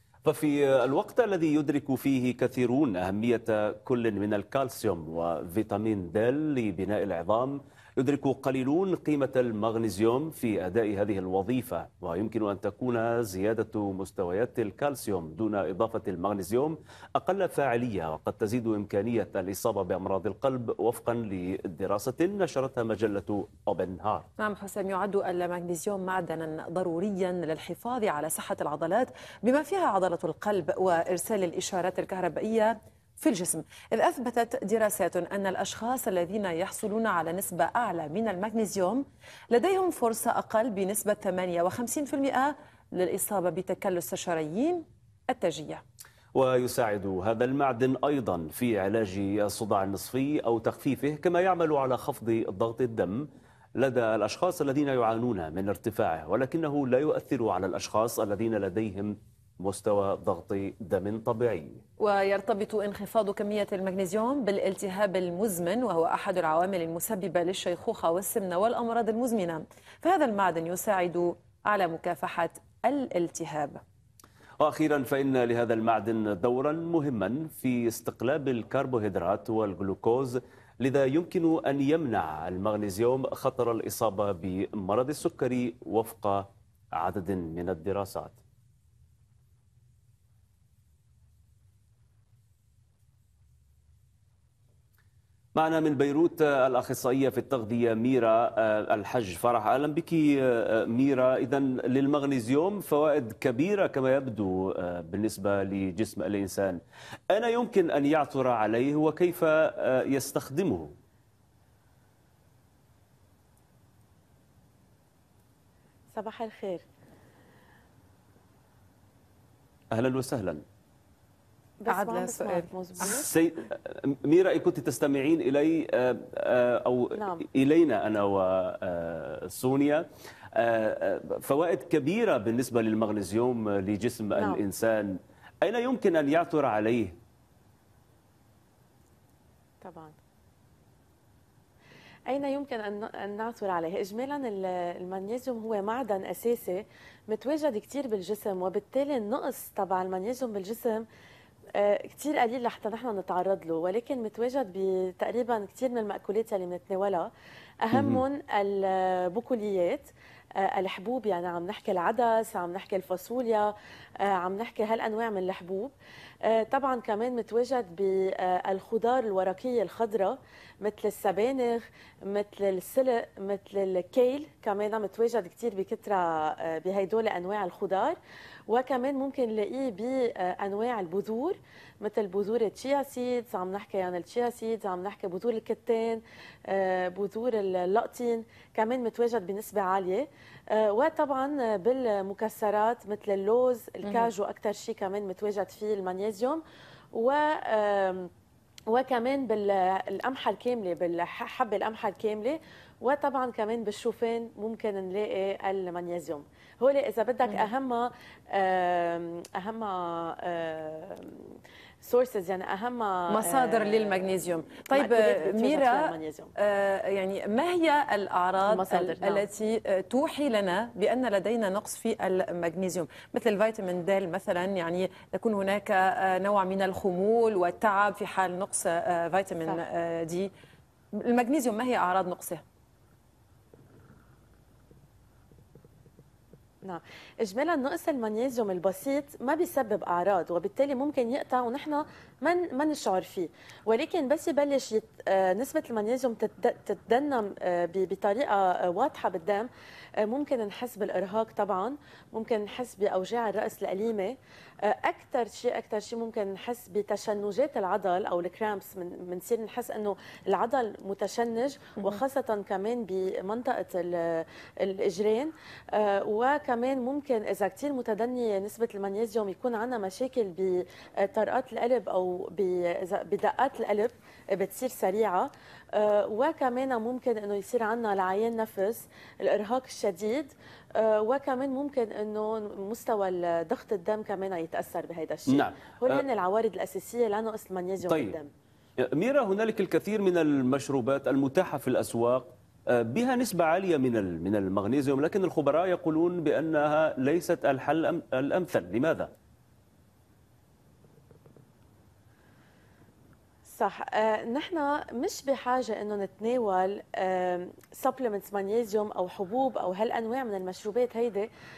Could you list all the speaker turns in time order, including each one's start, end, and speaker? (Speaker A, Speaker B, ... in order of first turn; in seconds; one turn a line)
Speaker A: 0.2-24.3
Speaker B: 24.4-45.8
Speaker A: 46.3-61.8
Speaker B: 62.0-73.8
Speaker A: 74.6-88.4
Speaker A: 95.5-110.9
Speaker C: 116.1-116.8
Speaker A: 119.9-120.6
Speaker C: 121.8-123.3
Speaker B: 121.9-123.2
Speaker A: 123.0-137.2
Speaker C: 127.2-127.5
Speaker C: 134.4-134.6
Speaker C: 139.8-140.1
Speaker C: 142.3-151.1
Speaker C: 151.8-157.3
Speaker C: 157.8-163.7
Speaker A: 157.9-158.2
Speaker C: 164.2-165.9
Speaker C: 166.4-178.2
Speaker C: 178.7-196.6
Speaker C: 197.1-198.3
Speaker C: 198.9-214.3
Speaker B: 213.3-230.5
Speaker C: 214.9-216.5
Speaker C: 218.6-219.4
Speaker B: 231.2-232.6
Speaker C: 236.8-249.7
Speaker C: 250.2-288.5
Speaker A: 285.5-286.2
Speaker A: 288.1-288.4
Speaker A: 289.0-299.3
Speaker C: 303.7-311.5